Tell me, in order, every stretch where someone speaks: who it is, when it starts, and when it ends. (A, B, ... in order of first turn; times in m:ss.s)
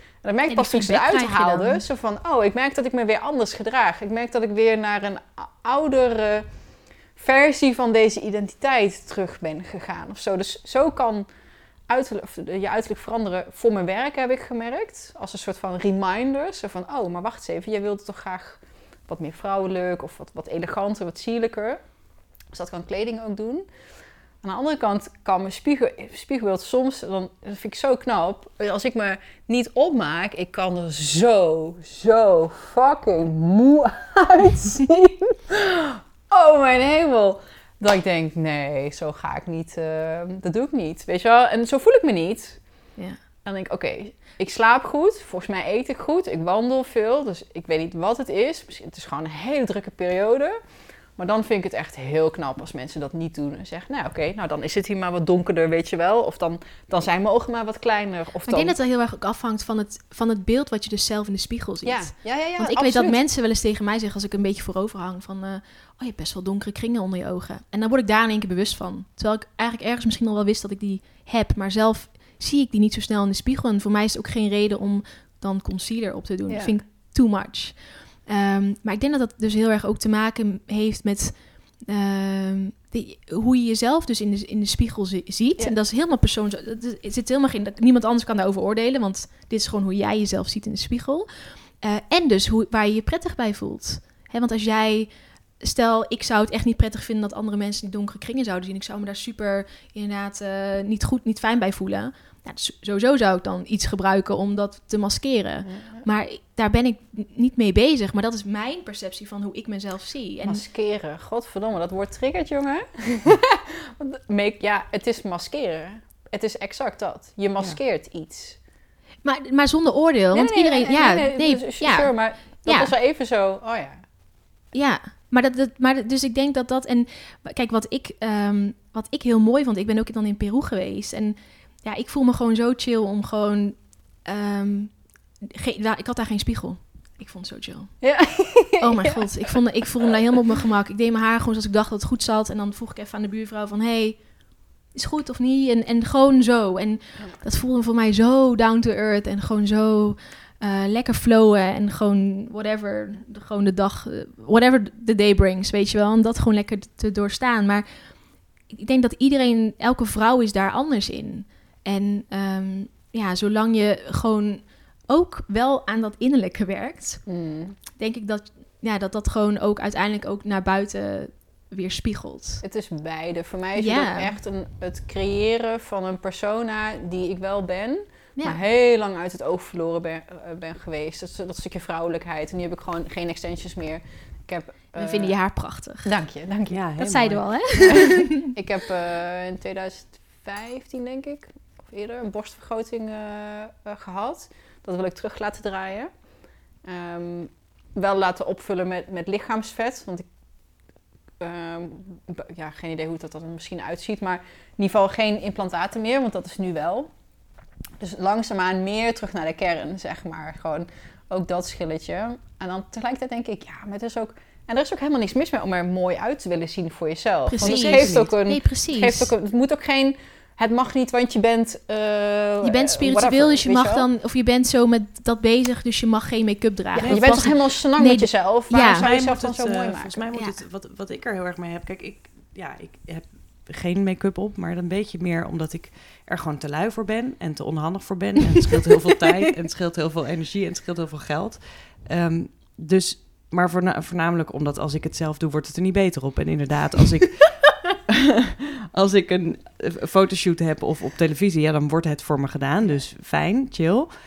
0:00.2-0:06.5 A
0:00.5-0:01.8 B
0:07.2-0:11.3 A
0:11.9-0:21.8 A
0:22.5-0:23.7 A
0:24.4-0:42.6 A
0:43.4-0:50.6 A
0:51.2-0:58.8 A
0:58.5-1:31.3 B
1:01.8-1:03.2 A
1:16.5-1:16.8 A
1:31.8-1:50.6 B
1:45.6-1:46.0 A
1:50.4-1:58.6 A
1:59.2-2:02.9 B
2:00.3-2:04.0 A
2:04.7-2:14.9 B
2:15.5-2:17.9 B
2:18.0-2:19.6 A
2:18.8-2:24.2 B
2:24.9-2:37.9 B
2:38.7-2:47.2 B
2:47.3-2:47.8 A
2:48.0-2:52.6 B
2:52.6-3:05.4 A
2:53.8-2:54.4 B
3:05.0-3:06.1 B
3:06.0-3:06.8 A
3:06.7-3:08.0 C
3:07.0-3:08.5 B
3:07.9-3:16.1 A
3:16.8-3:20.3 A
3:21.4-3:27.1 A
3:28.0-3:44.1 A
3:37.5-3:39.3 B
3:37.6-3:38.4 C
3:42.6-3:49.0 B
3:47.0-3:50.3 A
3:47.0-3:47.5 C
3:48.9-4:14.1 C